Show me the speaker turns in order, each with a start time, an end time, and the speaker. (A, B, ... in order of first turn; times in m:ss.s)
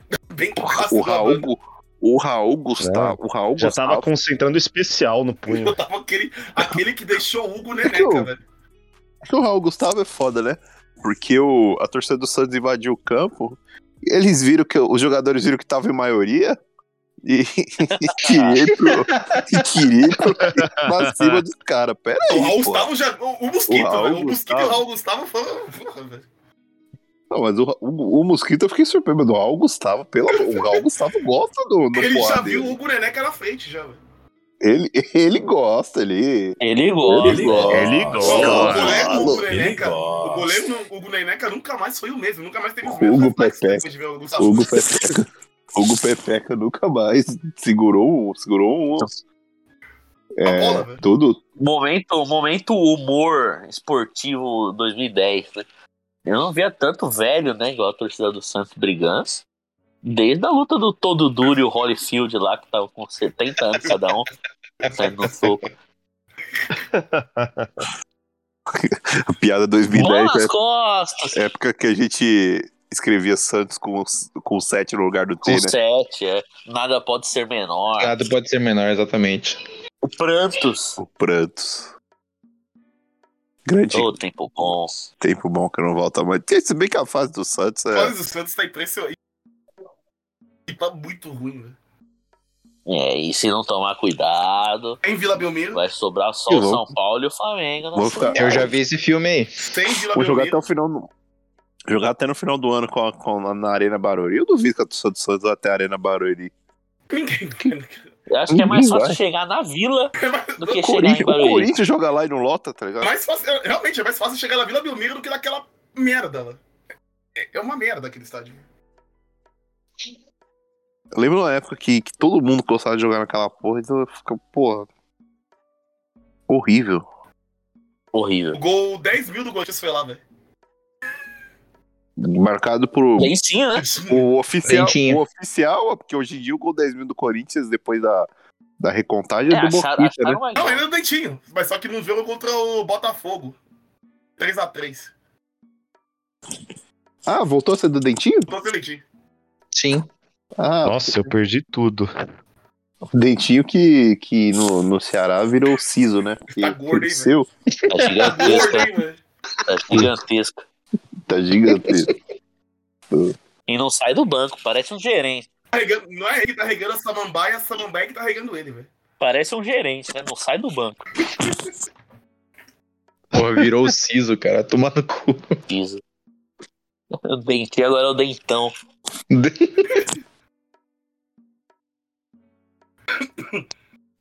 0:00.3-0:01.4 A
0:00.6-0:04.1 B
0:02.8-0:05.8 C
0:05.5-0:08.4 A
0:07.8-0:08.3 B
0:09.3-0:16.6 B
0:17.2-0:22.9 B
0:18.2-0:18.6 D
0:18.8-0:19.6 E
0:20.4-0:21.4 C
0:22.3-0:26.3 A
0:23.7-0:24.8 B
0:27.3-0:32.8 B
0:30.3-0:30.8 A
0:31.9-0:34.0 A
0:34.6-0:40.5 B
0:36.6-0:39.4 D
0:37.3-0:44.7 A
0:37.7-0:39.1 C
0:42.8-0:43.9 B
0:44.4-0:45.2 B
0:45.8-0:49.1 B
0:50.4-0:51.4 B
0:50.4-0:51.0 A
0:51.6-0:55.7 D
0:56.3-0:59.4 D
1:00.0-1:04.3 D
1:04.9-1:05.7 D
1:06.8-1:07.7 C
1:08.7-1:10.5 B
1:09.9-1:11.4 D
1:11.3-1:15.7 B
1:15.4-1:18.2 D
1:18.0-1:19.6 E
1:20.0-1:21.0 D
1:21.0-1:21.9 B
1:23.7-1:24.2 B
1:23.9-1:25.1 D
1:25.2-1:28.1 B
1:27.9-1:29.2 A
1:30.7-1:31.8 A
1:32.9-1:35.0 D
1:35.0-1:35.8 A
1:35.7-1:38.6 D
1:36.5-1:36.9 B
1:37.9-1:38.7 B
1:38.4-1:39.5 E
1:39.6-1:40.6 A
1:40.1-1:41.1 B
1:41.9-1:46.5 B
1:47.1-1:48.1 A
1:48.3-1:51.7 D
1:48.5-1:49.2 B
1:50.2-1:51.0 A
1:50.8-1:53.1 B
1:53.0-1:56.6 A
1:57.4-1:58.6 A
2:01.2-2:04.9 B
2:06.5-2:07.1 B
2:08.1-2:08.6 D
2:08.5-2:10.2 A
2:12.2-2:13.3 B
2:13.2-2:14.0 D
2:13.8-2:14.2 A
2:14.0-2:18.3 B
2:14.6-2:15.2 E
2:18.8-2:20.4 B
2:19.5-2:20.8 D
2:20.6-2:23.6 A
2:24.4-2:25.1 A
2:27.3-2:28.5 B
2:28.5-2:29.0 A
2:29.7-2:30.1 E
2:30.6-2:31.3 B
2:30.8-2:32.1 C
2:33.1-2:37.5 B
2:36.6-2:37.3 A
2:37.8-2:38.8 E
2:37.9-2:38.9 D
2:38.2-2:39.2 A
2:39.7-2:40.6 D
2:41.3-2:42.1 B
2:41.7-2:42.1 E
2:43.7-2:45.5 D
2:45.7-2:48.9 A
2:49.2-2:51.1 D
2:53.3-2:55.6 E
2:55.7-2:56.0 D
2:57.2-2:58.7 D
2:59.3-2:59.9 E
3:03.2-3:03.6 A